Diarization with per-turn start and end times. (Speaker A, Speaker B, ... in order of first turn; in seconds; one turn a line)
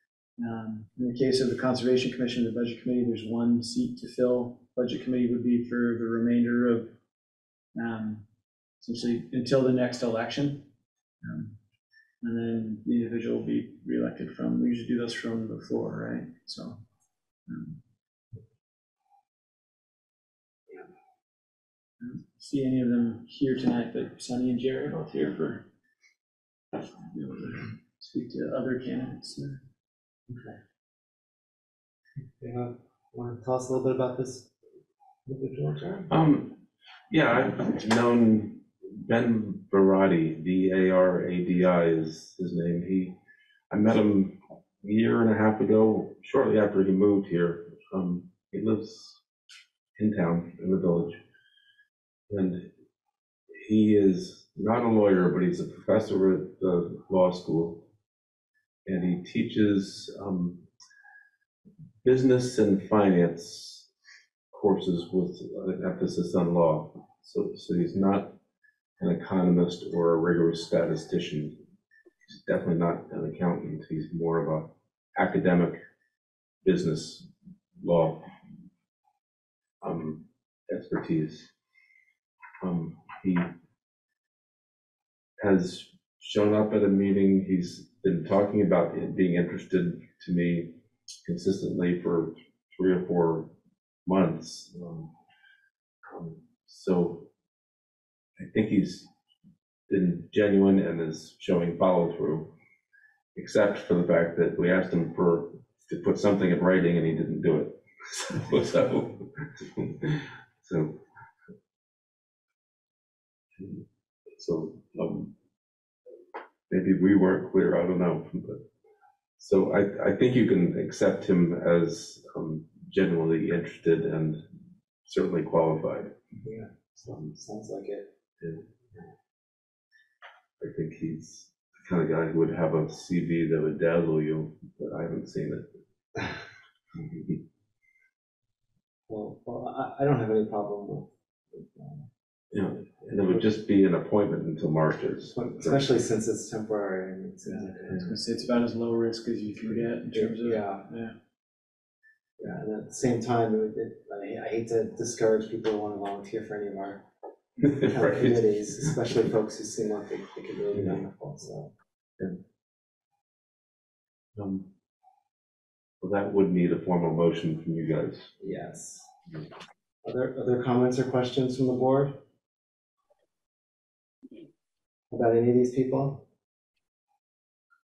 Speaker A: 0.4-6.9
Speaker A: 7.7-8.2
Speaker A: 8.8-10.7
Speaker A: 11.2-11.5
Speaker A: 12.2-16.8
Speaker A: 17.5-17.8
Speaker A: 22.0-25.6
Speaker A: 26.8-29.6
Speaker B: 30.3-30.6
Speaker B: 32.4-34.5
Speaker B: 35.2-36.1
Speaker C: 36.1-43.2
Speaker C: 43.7-49.2
Speaker C: 50.0-51.2
Speaker C: 52.3-52.7
Speaker C: 53.6-57.9
Speaker C: 58.9-60.6
Speaker C: 62.0-63.9
Speaker C: 64.5-68.3
Speaker C: 69.0-71.6
Speaker C: 72.3-75.8
Speaker C: 76.6-78.3
Speaker C: 79.8-81.5
Speaker C: 82.6-83.5
Speaker C: 85.4-93.5
Speaker C: 94.0-95.1
Speaker C: 96.1-97.3
Speaker C: 98.4-99.1
Speaker C: 99.9-102.5
Speaker C: 103.3-111.0
Speaker C: 113.6-115.3
Speaker C: 116.7-118.7
Speaker C: 119.4-124.4
Speaker C: 125.0-126.2
Speaker B: 126.4-128.1
Speaker C: 128.4-129.0
Speaker C: 130.6-135.7
Speaker C: 137.0-137.4
Speaker B: 139.1-142.1
Speaker C: 142.5-145.8
Speaker B: 145.3-148.1
Speaker A: 147.4-151.1
Speaker B: 150.1-150.9
Speaker B: 152.4-157.1
Speaker B: 157.6-161.7
Speaker C: 157.6-158.4
Speaker C: 164.3-164.7
Speaker C: 166.0-168.3
Speaker B: 168.4-169.1
Speaker B: 170.0-172.2
Speaker B: 175.1-176.2